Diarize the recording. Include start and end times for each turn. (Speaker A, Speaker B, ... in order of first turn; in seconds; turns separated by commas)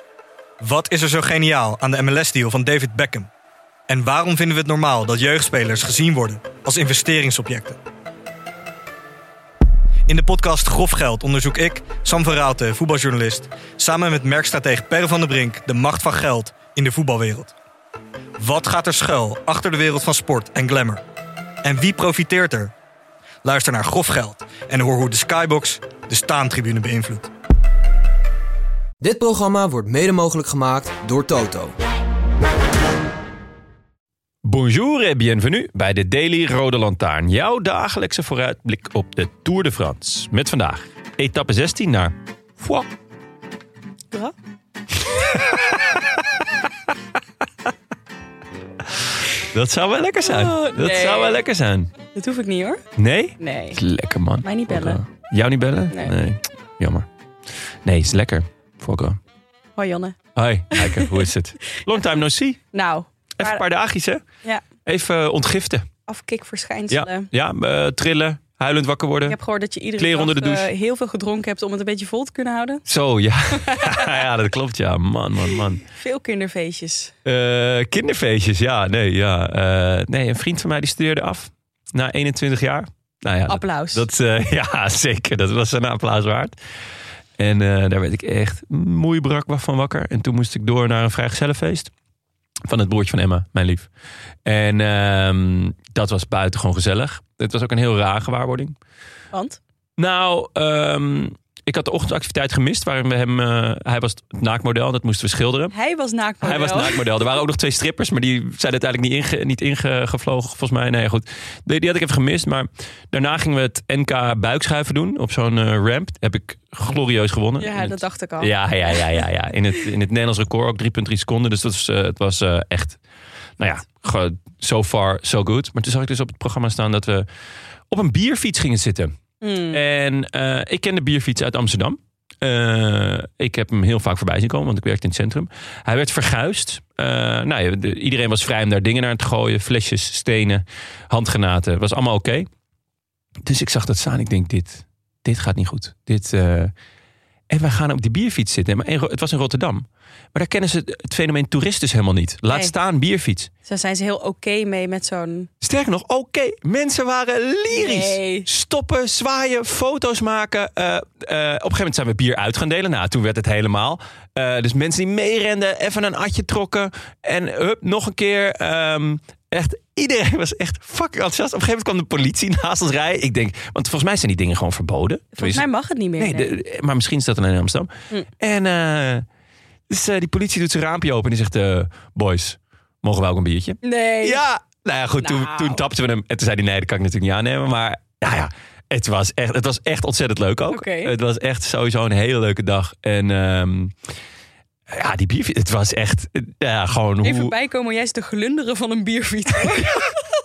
Speaker A: 0.6-3.3, Speaker A: 3.9-7.8, Speaker A: 10.1-17.5, Speaker A: 18.4-21.0, Speaker A: 21.6-22.7, Speaker A: 23.4-27.3, Speaker B: 29.0-31.7, Speaker C: 34.4-42.9, Speaker C: 45.1-46.2, Speaker C: 49.5-51.9, Speaker D: 50.2-51.4, Speaker D: 52.1-52.8, Speaker C: 53.0-57.0, Speaker D: 53.4-53.8, Speaker D: 54.4-55.0, Speaker C: 57.8-59.2, Speaker D: 59.8-60.2, Speaker C: 60.4-62.6, Speaker D: 60.7-61.2, Speaker D: 62.7-63.6, Speaker C: 63.4-64.2, Speaker C: 64.8-65.8, Speaker D: 66.1-67.3, Speaker C: 66.9-69.4, Speaker D: 69.2-72.8, Speaker C: 70.0-70.7, Speaker C: 72.8-75.8, Speaker D: 73.6-74.1, Speaker D: 75.8-77.1, Speaker C: 77.2-86.5, Speaker D: 83.5-84.1, Speaker C: 87.4-91.9, Speaker C: 92.7-93.9, Speaker C: 94.4-98.7, Speaker D: 99.3-99.6, Speaker C: 100.0-105.7, Speaker D: 105.7-107.1, Speaker C: 106.4-123.0, Speaker D: 117.6-119.0, Speaker C: 123.6-127.2, Speaker C: 127.9-129.1, Speaker D: 129.4-129.8, Speaker C: 129.7-142.5, Speaker C: 143.4-146.7, Speaker C: 147.5-153.5, Speaker D: 153.6-155.5, Speaker C: 155.6-175.6, Speaker D: 157.7-158.5, Speaker D: 175.4-176.5, Speaker C: 176.2-179.2, Speaker C: 179.9-193.9, Speaker D: 183.8-184.4, Speaker D: 185.2-185.8, Speaker D: 190.7-191.1, Speaker C: 194.9-197.5, Speaker D: 197.2-200.0, Speaker C: 199.6-200.1